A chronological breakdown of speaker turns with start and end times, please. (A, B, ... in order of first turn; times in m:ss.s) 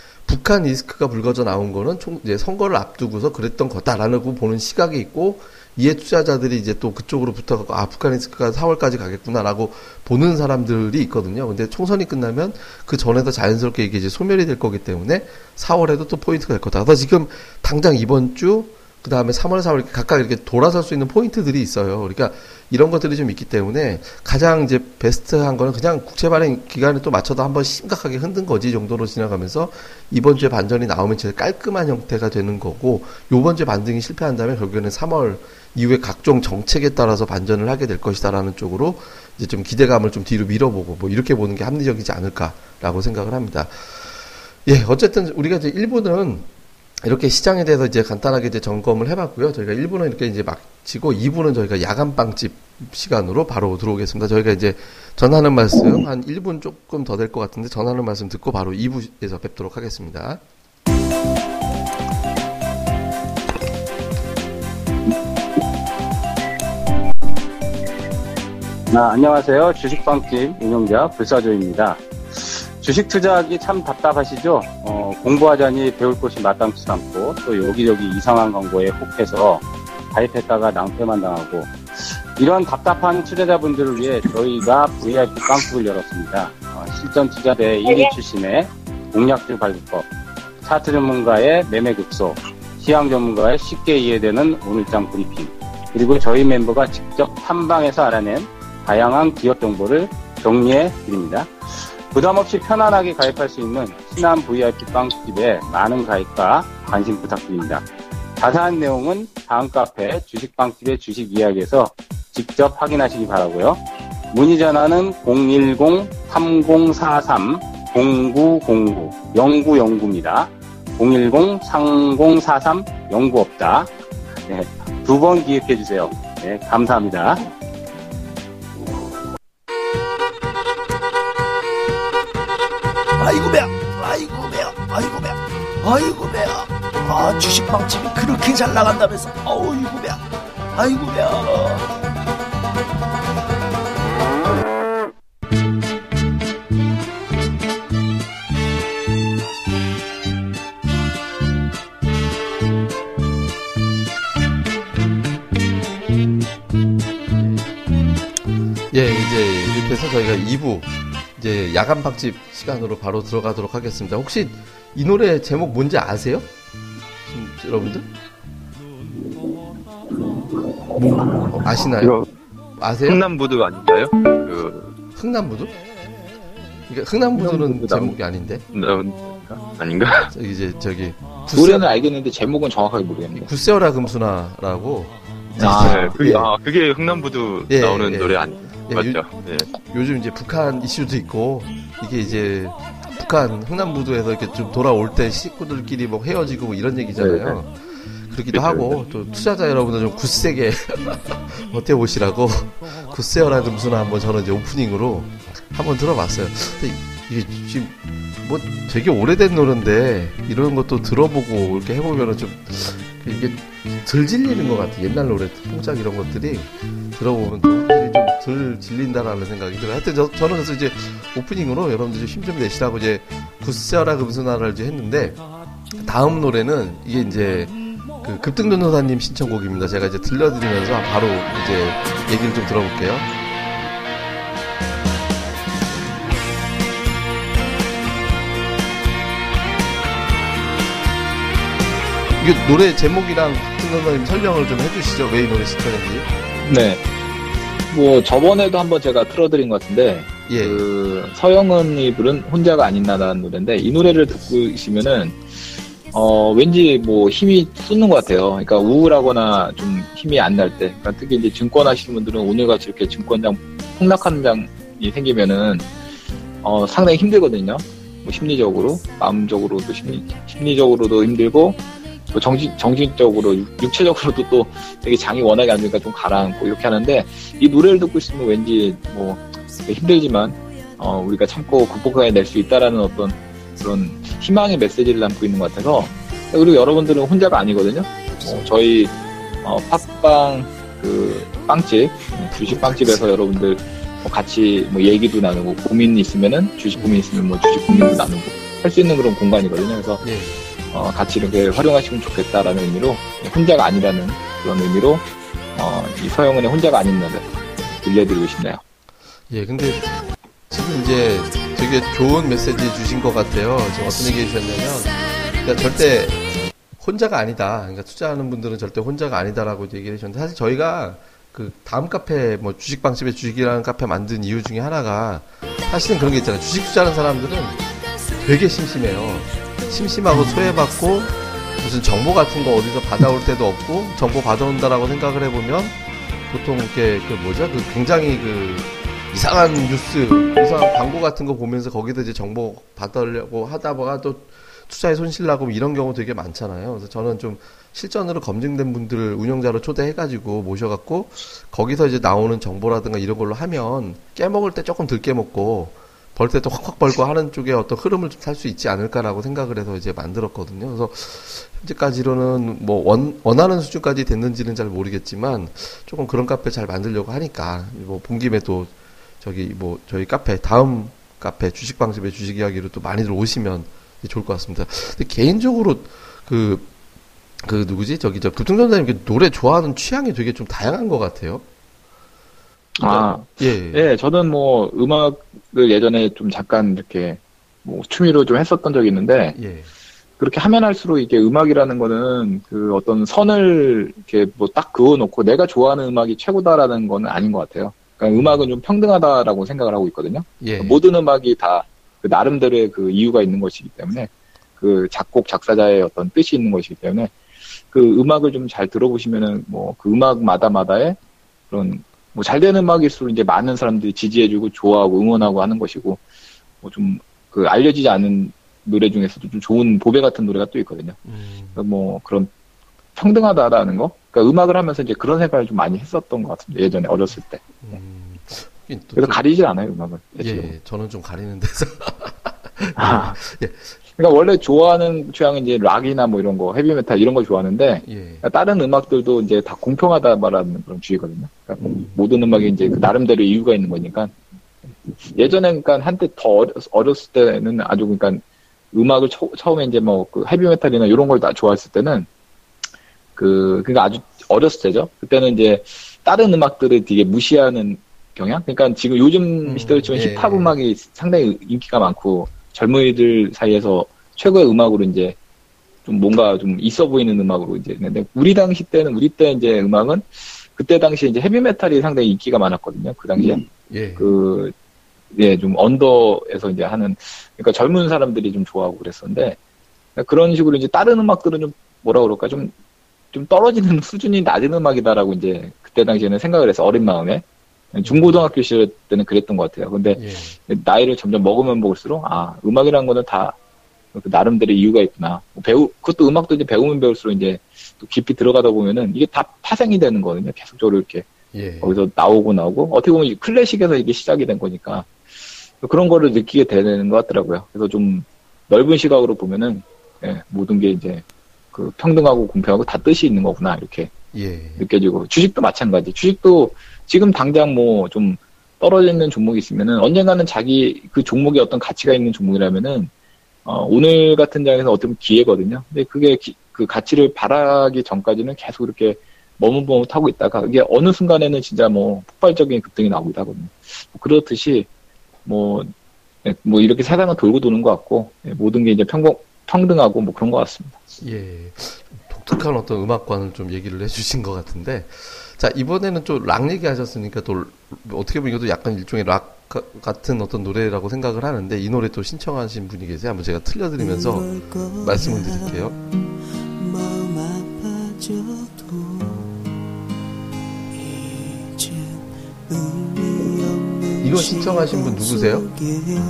0:00.2-0:44.1 A
0:44.6-0:46.5 A
0:47.0-1:00.4 A
1:08.9-1:30.0 B
1:30.6-1:47.8 B
1:48.4-2:03.9 B
2:04.5-2:07.5 B
2:13.2-2:20.2 C
2:20.7-2:21.9 C
2:38.9-2:46.5 A
2:47.3-2:48.1 A
2:51.0-2:52.2 A
2:52.8-2:53.2 A
2:53.0-2:54.9 D
2:55.2-2:55.7 A
2:56.9-2:58.6 A
2:57.5-2:58.1 D
2:58.7-3:00.3 D
3:00.3-3:01.9 A
3:01.5-3:03.5 E
3:03.3-3:06.5 A
3:05.6-3:06.1 E
3:05.6-3:09.7 D
3:07.7-3:45.4 A
3:17.2-3:17.6 E
3:18.5-3:18.8 D
3:46.0-3:53.3 A
4:02.4-4:06.3 A
4:06.6-4:07.0 E
4:07.9-4:15.5 E
4:10.5-4:10.8 A
4:16.1-4:25.9 E
4:26.6-4:31.8 E
4:32.3-5:00.2 E
4:52.5-4:53.3 A
4:56.9-4:57.3 A
5:00.2-5:00.6 A
5:00.9-5:08.8 E
5:09.5-5:27.9 A
5:28.4-6:16.9 A
6:17.6-6:21.6 A
6:23.0-6:24.1 A
6:23.0-6:29.6 E
6:29.5-6:29.9 A
6:30.4-6:47.3 E
6:38.3-6:38.7 A
6:40.6-6:41.0 A
6:47.9-6:51.2 E
6:51.7-6:56.2 E
6:56.8-7:01.2 E
7:01.3-7:01.8 A
7:01.8-7:02.5 E
7:03.2-7:07.6 E
7:07.8-7:09.4 A
7:09.2-7:10.7 E
7:10.4-7:14.0 A
7:13.0-7:13.4 E
7:14.2-7:24.3 E
7:18.0-7:18.4 A
7:21.8-7:22.2 A
7:25.2-7:32.3 E
7:33.4-7:45.4 E
7:39.6-7:40.8 A
7:46.0-7:53.6 E
7:53.9-7:54.3 A
7:54.2-7:54.7 E
7:55.3-7:59.6 E
8:00.2-8:02.7 E
8:03.3-8:13.6 E
8:08.0-8:08.4 A
8:10.1-8:10.6 A
8:14.1-8:21.3 E
8:21.5-8:22.0 A
8:21.8-8:25.2 E
8:25.8-8:34.1 E
8:34.3-8:34.9 A
8:34.8-8:43.1 E
8:43.6-8:54.9 E
8:55.4-8:55.9 E
8:56.4-9:01.0 E
9:01.2-9:16.0 A
9:24.2-9:25.7 A